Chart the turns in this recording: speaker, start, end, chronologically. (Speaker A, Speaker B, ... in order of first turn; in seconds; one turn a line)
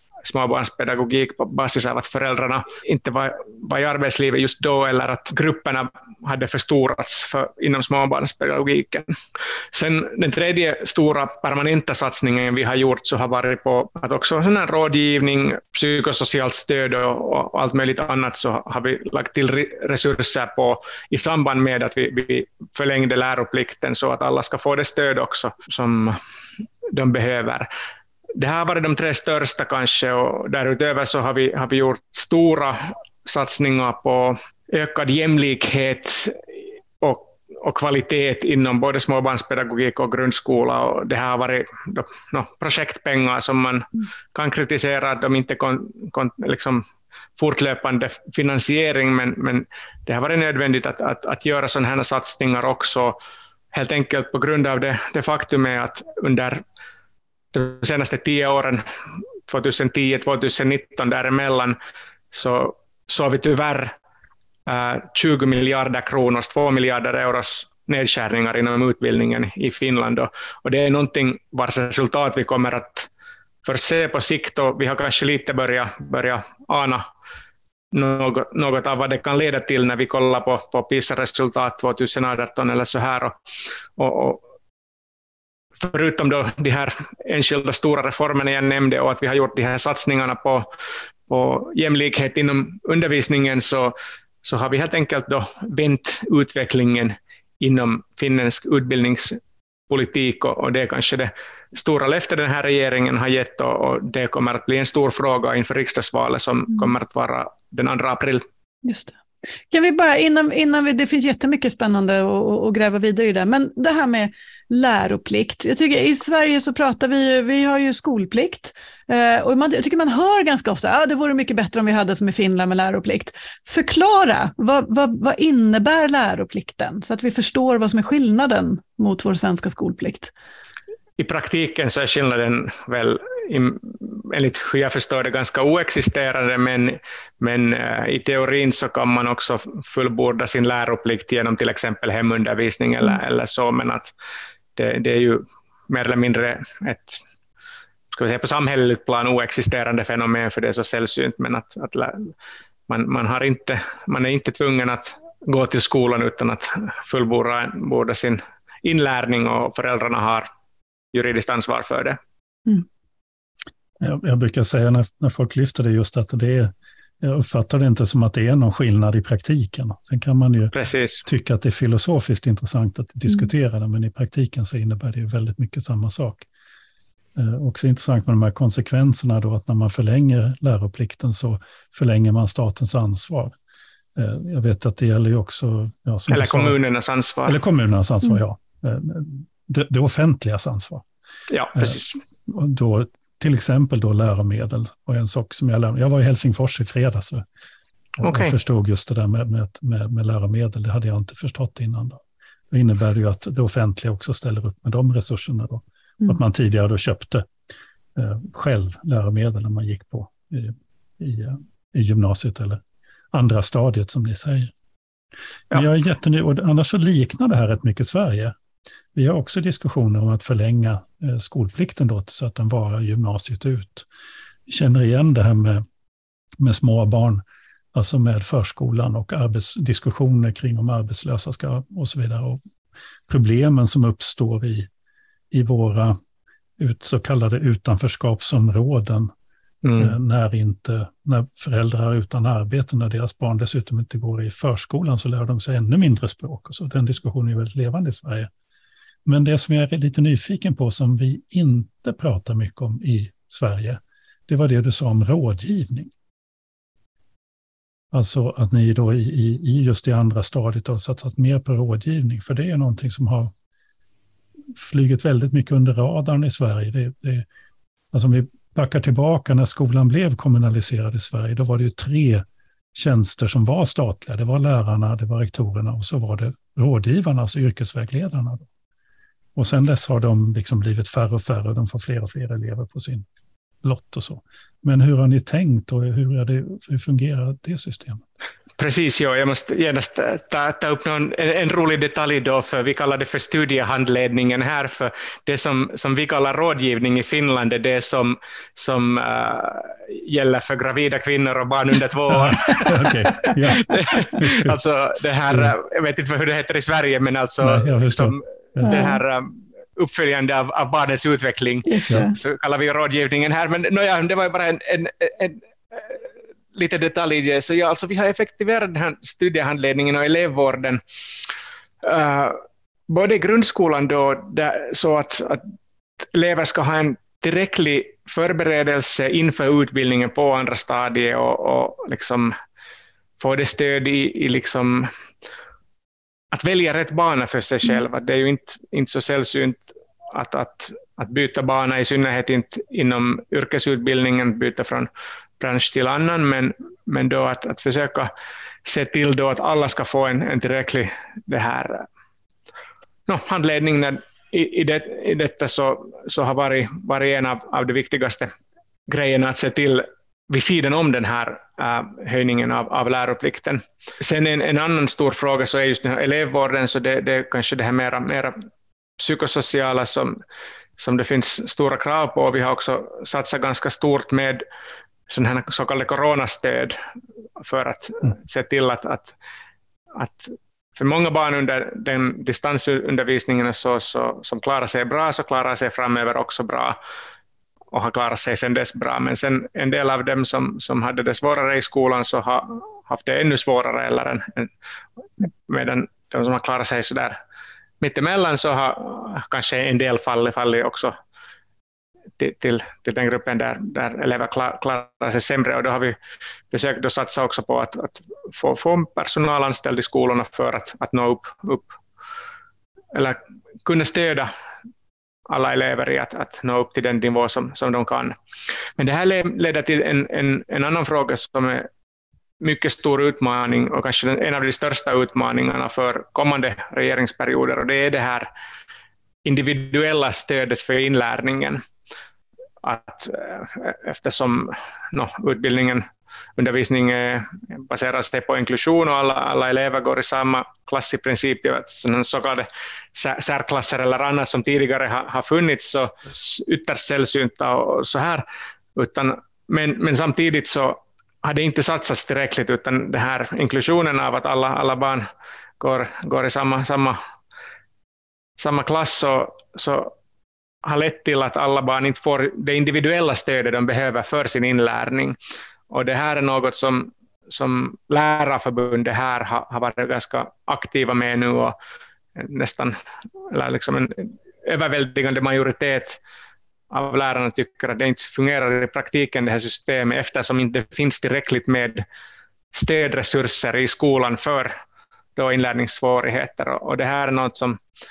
Speaker A: 0.2-9.1
Speaker A: 9.7-26.2
Speaker A: 26.9-27.7
Speaker A: 28.4-46.8
Speaker A: 47.4-53.1
Speaker A: 53.7-56.6
Speaker A: 57.5-61.8
Speaker A: 62.3-64.0
Speaker A: 64.7-73.1
Speaker A: 73.6-77.1
Speaker A: 77.9-83.4
Speaker A: 84.0-84.4
Speaker A: 85.8-90.7
Speaker A: 91.3-108.4
Speaker B: 108.8-109.2
Speaker B: 109.7-130.3
Speaker A: 131.2-144.1
Speaker A: 144.8-147.2
Speaker A: 148.1-152.3
Speaker A: 152.9-160.5
Speaker A: 161.1-162.2
Speaker C: 164.0-170.7
Speaker A: 170.7-171.2
Speaker C: 171.2-176.5
Speaker C: 177.3-183.6
Speaker C: 184.2-186.8
Speaker A: 186.3-187.6
Speaker C: 187.5-191.1
Speaker A: 191.5-192.2
Speaker C: 191.7-197.4
Speaker C: 198.2-207.5
Speaker A: 198.2-198.5
Speaker C: 208.2-212.8
Speaker C: 213.3-214.7
Speaker C: 215.7-218.5
Speaker C: 219.1-224.1
Speaker C: 224.7-225.8
Speaker C: 226.6-232.6
Speaker C: 233.3-234.9
Speaker C: 235.5-236.2
Speaker C: 236.8-239.3
Speaker A: 239.8-240.1
Speaker C: 240.0-248.5
Speaker C: 249.2-256.1
Speaker C: 258.1-263.5
Speaker C: 264.8-267.4
Speaker C: 268.1-278.7
Speaker C: 279.6-283.2
Speaker C: 283.8-288.2
Speaker A: 288.8-316.2
Speaker C: 302.3-304.7
Speaker C: 307.6-309.0
Speaker B: 308.8-309.2
Speaker B: 311.9-312.4
Speaker A: 316.7-321.0
Speaker A: 322.0-325.6
Speaker A: 326.2-332.5
Speaker A: 333.4-335.1
Speaker A: 336.5-345.1
Speaker A: 345.6-348.3
Speaker A: 348.8-352.1
Speaker A: 353.3-358.5
Speaker A: 359.1-368.6
Speaker A: 369.2-370.4
Speaker A: 371.0-374.6
Speaker A: 375.3-377.0
Speaker A: 377.6-379.3
Speaker A: 380.1-387.0
Speaker A: 387.9-394.7
Speaker A: 395.4-397.4
Speaker A: 398.0-401.1
Speaker A: 402.4-406.2
Speaker A: 406.7-412.0
Speaker A: 413.1-414.5
Speaker A: 415.5-418.4
Speaker A: 419.0-421.9
Speaker A: 422.6-428.5
Speaker A: 429.4-431.8
Speaker A: 432.8-436.0
Speaker A: 436.6-448.4
Speaker A: 448.9-455.2
Speaker A: 455.8-457.2
Speaker A: 458.6-460.1
Speaker A: 460.8-465.4
Speaker A: 465.9-471.8
Speaker A: 472.4-472.9
Speaker A: 473.5-476.2
Speaker A: 476.9-482.0
Speaker A: 482.7-484.7
Speaker A: 485.4-487.8